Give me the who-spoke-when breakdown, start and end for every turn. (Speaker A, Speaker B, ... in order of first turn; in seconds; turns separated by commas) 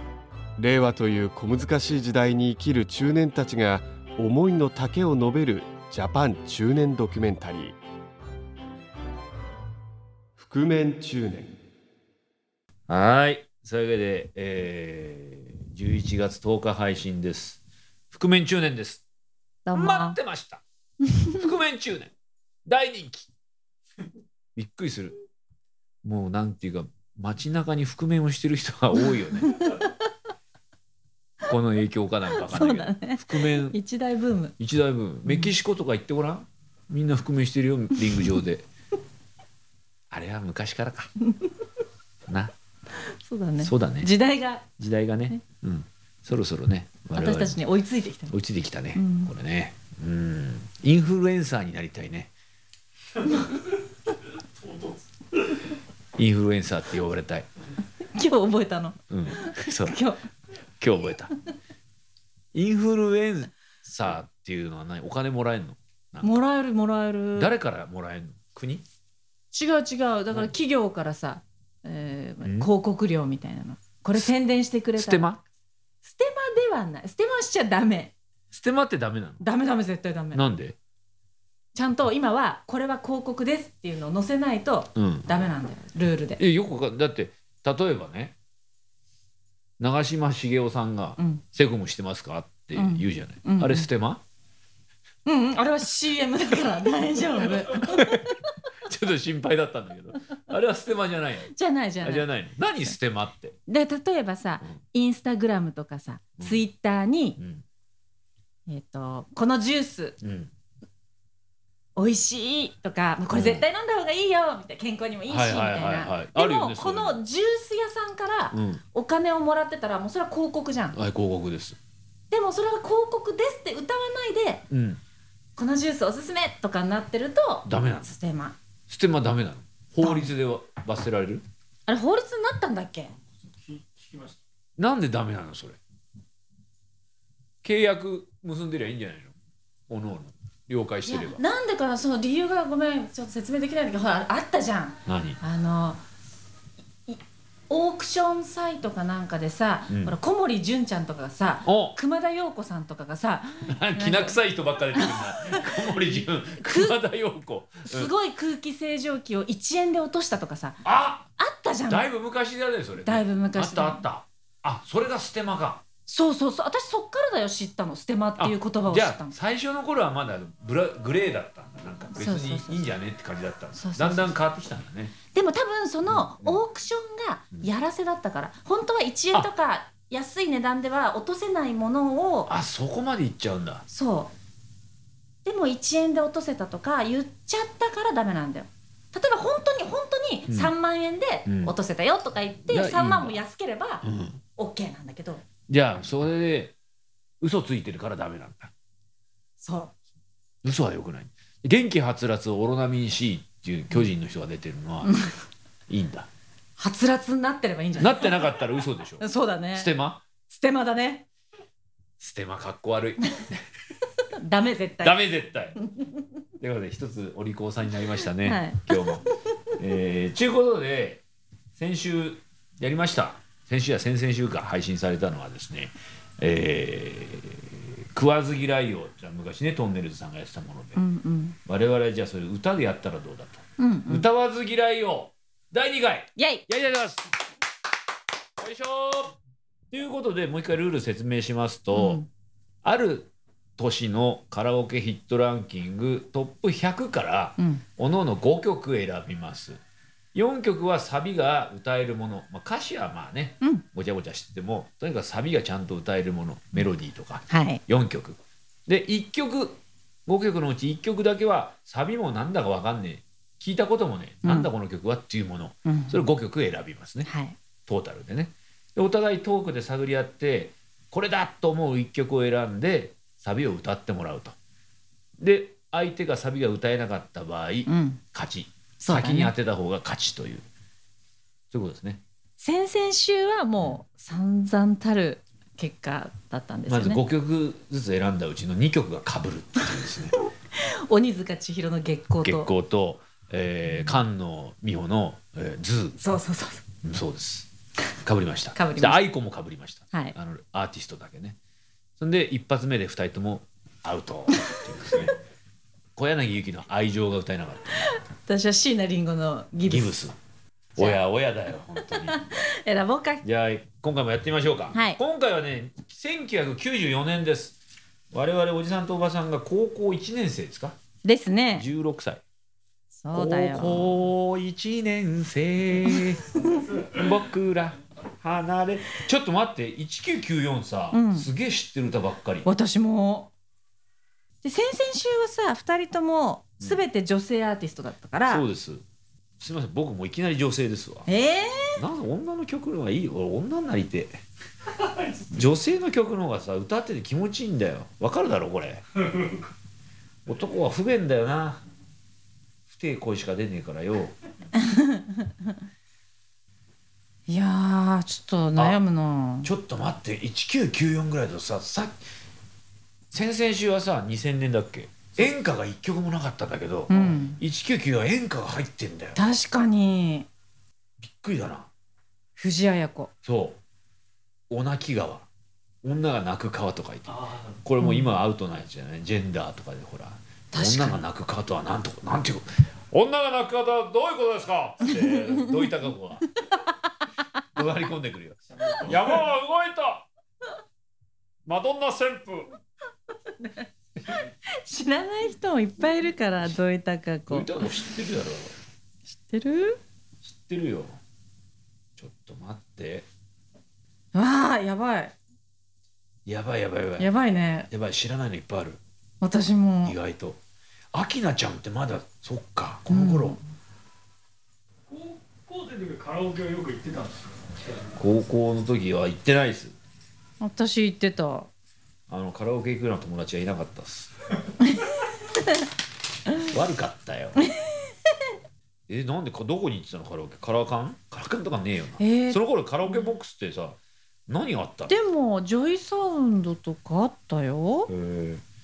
Speaker A: 0.6-7.8, Speaker A: 10.4-11.6, Speaker B: 12.9-17.6, Speaker B: 18.1-19.0, Speaker C: 19.6-20.2, Speaker B: 19.7-20.6, Speaker B: 21.3-22.1, Speaker B: 22.6-23.3, Speaker B: 24.6-25.1, Speaker B: 26.0-29.6, Speaker C: 29.1-29.9, Speaker B: 31.4-33.8, Speaker C: 32.3-34.5, Speaker B: 34.6-38.6, Speaker C: 35.2-35.5, Speaker B: 40.1-41.1, Speaker C: 43.2-44.7, Speaker B: 43.6-44.1, Speaker B: 44.8-47.6, Speaker C: 47.1-48.4, Speaker B: 48.3-52.3, Speaker C: 48.9-49.3, Speaker C: 53.2-53.5, Speaker B: 56.2-57.5, Speaker C: 58.1-60.2, Speaker B: 59.1-60.0, Speaker B: 60.8-61.3, Speaker B: 62.5-66.3, Speaker C: 66.2-67.5, Speaker B: 67.3-68.8, Speaker C: 69.5-75.3, Speaker B: 72.4-72.7, Speaker B: 74.9-75.4, Speaker C: 76.0-78.1, Speaker B: 78.5-79.4, Speaker C: 79.4-80.4, Speaker B: 80.3-80.8, Speaker C: 81.7-86.4, Speaker B: 85.0-85.5, Speaker B: 86.4-88.3, Speaker B: 89.8-94.2, Speaker C: 91.2-91.4, Speaker C: 92.7-93.9, Speaker C: 95.2-98.1, Speaker B: 97.7-98.3, Speaker B: 98.8-101.5, Speaker C: 101.5-102.3, Speaker B: 102.0-103.5, Speaker C: 103.7-107.4, Speaker B: 107.4-107.6, Speaker C: 108.7-110.2, Speaker B: 110.2-110.5, Speaker C: 112.0-121.0, Speaker B: 113.3-113.6, Speaker B: 115.3-117.2, Speaker B: 118.5-118.8, Speaker B: 120.9-121.8, Speaker C: 122.3-124.6, Speaker B: 124.7-125.0, Speaker C: 125.5-128.5, Speaker B: 127.7-128.1, Speaker B: 128.9-131.4, Speaker C: 130.0-130.3, Speaker C: 131.8-133.1, Speaker D: 133.7-134.4, Speaker B: 134.8-135.8, Speaker B: 137.6-139.3, Speaker B: 139.9-141.4, Speaker C: 141.1-146.0, Speaker B: 145.1-145.4, Speaker C: 147.1-154.4, Speaker B: 149.9-150.1, Speaker B: 151.6-152.0, Speaker B: 153.7-158.1, Speaker C: 154.9-156.9, Speaker C: 157.8-160.8, Speaker B: 160.8-161.2, Speaker C: 161.4-162.1, Speaker B: 161.9-165.8, Speaker C: 163.0-164.0, Speaker C: 166.1-169.3, Speaker B: 168.4-175.1, Speaker C: 172.1-172.9, Speaker C: 173.8-174.3, Speaker C: 175.3-182.5, Speaker B: 176.1-176.6, Speaker B: 182.5-183.8, Speaker C: 183.9-184.3, Speaker C: 185.4-194.0, Speaker B: 191.4-191.7, Speaker B: 192.7-193.4, Speaker B: 194.0-194.4, Speaker C: 194.6-195.4, Speaker B: 195.7-196.7, Speaker B: 197.4-198.7, Speaker C: 199.6-199.9, Speaker B: 200.6-205.1, Speaker B: 205.9-206.3, Speaker C: 206.8-208.6, Speaker B: 208.0-210.2, Speaker C: 209.2-209.9, Speaker C: 210.5-211.2, Speaker B: 212.2-213.6, Speaker C: 214.3-215.2, Speaker B: 215.0-215.8, Speaker B: 216.6-221.2, Speaker C: 218.4-219.2, Speaker B: 221.8-231.0, Speaker C: 230.9-231.6, Speaker B: 231.7-237.3, Speaker C: 233.8-234.3, Speaker C: 236.3-236.6, Speaker B: 238.6-239.3, Speaker B: 239.9-242.2, Speaker C: 241.9-242.3, Speaker B: 242.8-249.8, Speaker C: 247.6-247.8, Speaker B: 250.3-267.3, Speaker C: 257.5-257.8, Speaker C: 264.4-264.7, Speaker C: 265.8-266.2, Speaker C: 267.2-267.6, Speaker B: 267.9-274.6, Speaker B: 275.4-280.6, Speaker C: 277.9-278.2, Speaker C: 279.0-279.5, Speaker B: 281.7-282.2, Speaker C: 282.6-287.2, Speaker B: 286.9-290.4, Speaker C: 290.3-292.7, Speaker B: 292.4-296.2, Speaker C: 296.2-296.8, Speaker B: 297.0-297.7, Speaker B: 298.2-301.6, Speaker C: 298.7-299.2, Speaker B: 302.2-305.3, Speaker B: 306.1-308.2, Speaker C: 308.1-310.2, Speaker B: 309.9-310.4, Speaker B: 310.9-312.5, Speaker C: 312.1-313.4, Speaker B: 313.4-317.8, Speaker C: 314.9-315.2, Speaker B: 318.3-321.0, Speaker C: 321.2-321.9, Speaker B: 321.7-322.4, Speaker C: 323.1-324.2, Speaker B: 323.3-326.5, Speaker C: 326.1-326.9, Speaker B: 327.1-332.7, Speaker C: 331.1-331.5, Speaker C: 332.6-333.5, Speaker C: 334.6-338.6, Speaker B: 338.5-339.0, Speaker B: 339.6-341.3, Speaker C: 341.2-342.0, Speaker B: 342.0-344.4, Speaker B: 345.5-349.0, Speaker B: 350.5-351.8, Speaker B: 352.9-354.3, Speaker C: 354.8-355.5, Speaker C: 357.5-359.7, Speaker B: 359.6-362.2, Speaker B: 363.3-369.4, Speaker C: 367.1-367.6, Speaker C: 369.4-370.5, Speaker B: 371.2-371.9, Speaker C: 372.6-373.3, Speaker B: 373.4-373.8, Speaker B: 374.7-375.5, Speaker B: 376.0-386.4, Speaker C: 378.0-378.3, Speaker C: 380.7-381.2, Speaker C: 386.6-387.0, Speaker B: 387.8-390.3, Speaker B: 391.6-392.7, Speaker C: 394.7-397.9, Speaker B: 397.5-398.7, Speaker C: 399.3-400.0, Speaker B: 400.4-401.1, Speaker B: 402.2-403.2, Speaker C: 404.3-405.3, Speaker B: 406.4-407.3, Speaker C: 407.2-407.9, Speaker B: 407.9-409.0, Speaker C: 409.4-410.2, Speaker B: 410.0-410.6, Speaker B: 411.1-413.6, Speaker C: 413.1-413.6, Speaker D: 415.1-417.5, Speaker B: 418.2-419.9, Speaker C: 420.6-421.7, Speaker B: 422.3-424.3, Speaker C: 424.8-425.8, Speaker B: 426.6-427.6, Speaker C: 427.6-427.9, Speaker B: 429.1-435.1, Speaker C: 432.2-433.3, Speaker C: 435.1-438.1, Speaker B: 438.1-438.6